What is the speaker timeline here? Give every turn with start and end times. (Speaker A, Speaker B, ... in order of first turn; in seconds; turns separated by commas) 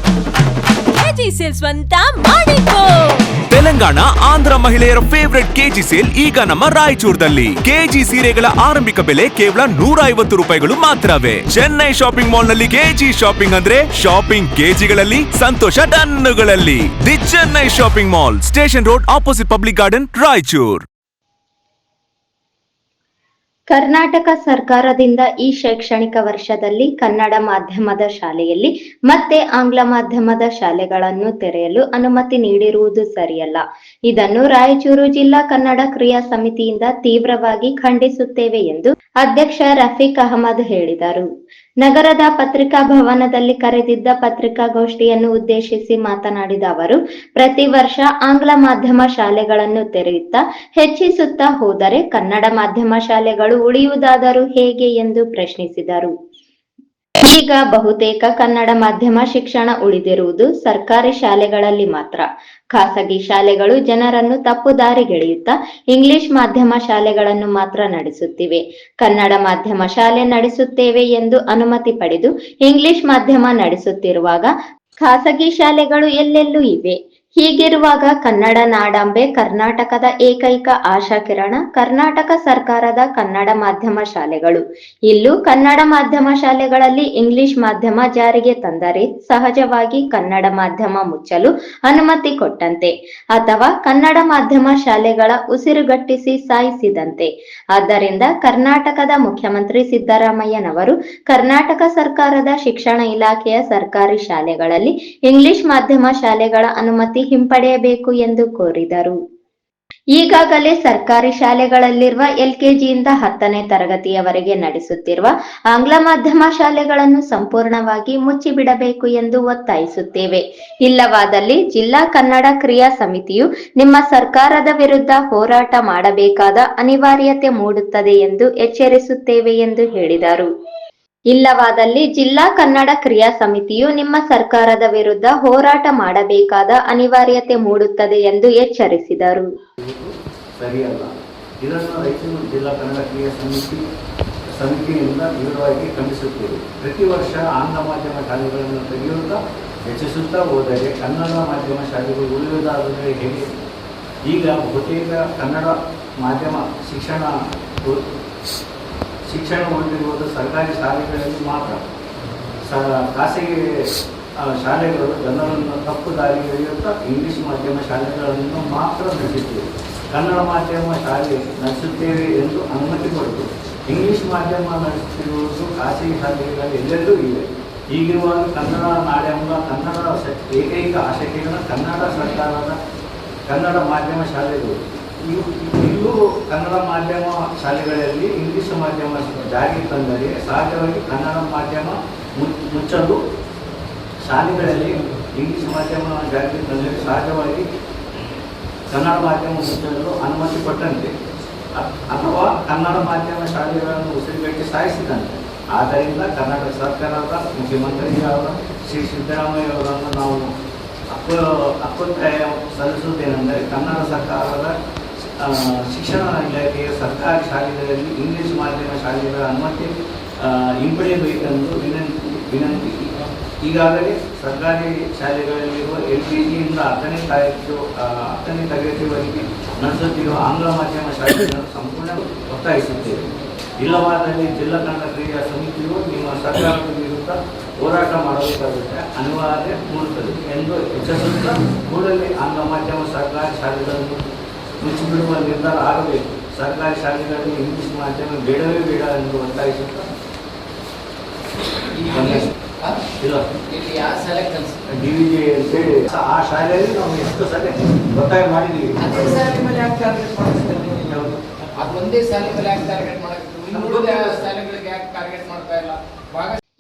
Speaker A: 0.9-3.3, Speaker B: 3.5-20.9, Speaker C: 23.7-41.3, Speaker C: 41.8-56.1, Speaker C: 57.2-74.5, Speaker C: 75.0-109.2, Speaker C: 110.2-130.5, Speaker C: 131.3-139.5, Speaker D: 139.8-143.8, Speaker D: 144.5-153.6, Speaker D: 154.2-158.1, Speaker D: 159.3-161.8, Speaker D: 162.6-182.8, Speaker D: 183.5-193.2, Speaker D: 194.2-197.7, Speaker D: 198.9-201.1, Speaker D: 201.7-210.5, Speaker D: 211.1-214.8, Speaker D: 215.4-233.2, Speaker D: 233.8-244.3, Speaker D: 244.8-250.1, Speaker E: 251.9-253.0, Speaker D: 252.1-252.5, Speaker D: 253.2-253.5, Speaker E: 253.7-254.8, Speaker D: 254.9-259.2, Speaker E: 259.0-261.2, Speaker D: 260.8-261.4, Speaker E: 261.8-266.6, Speaker D: 263.7-264.5